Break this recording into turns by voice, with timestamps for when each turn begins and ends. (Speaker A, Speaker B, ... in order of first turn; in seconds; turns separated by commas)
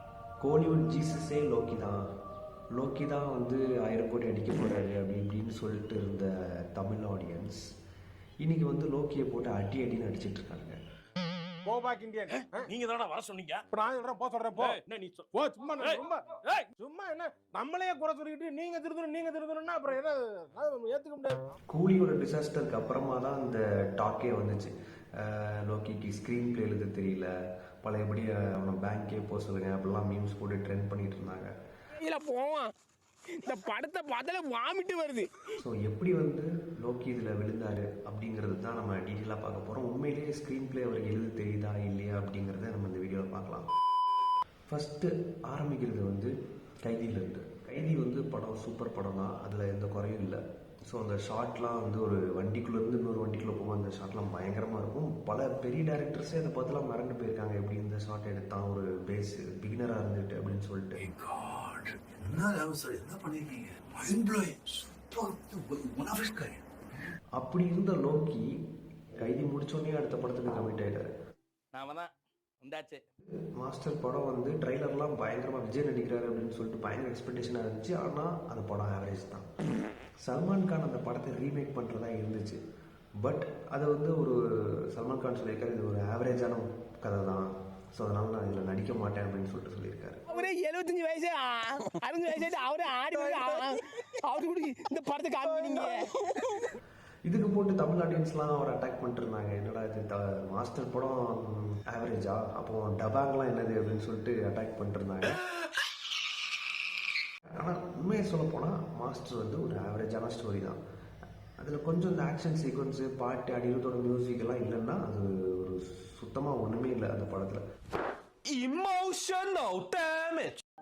Speaker A: 0.4-2.1, Speaker A: 2.7-7.6, Speaker A: 8.4-10.8, Speaker B: 11.8-12.6, Speaker C: 12.8-13.6, Speaker B: 13.7-14.7, Speaker C: 14.6-15.2, Speaker B: 15.4-16.2, Speaker B: 16.7-21.4, Speaker A: 21.7-31.5, Speaker D: 32.0-32.7, Speaker D: 33.4-35.4, Speaker A: 35.6-43.7, Speaker A: 44.7-61.0, Speaker E: 61.0-66.6, Speaker A: 67.4-68.5, Speaker A: 69.2-71.1, Speaker C: 71.7-72.1, Speaker C: 72.6-73.0, Speaker A: 73.5-79.5, Speaker A: 80.2-82.6, Speaker A: 83.2-90.2, Speaker D: 90.3-96.7, Speaker A: 97.3-105.4, Speaker A: 107.5-110.8, Speaker A: 111.6-117.6, Speaker C: 118.5-120.6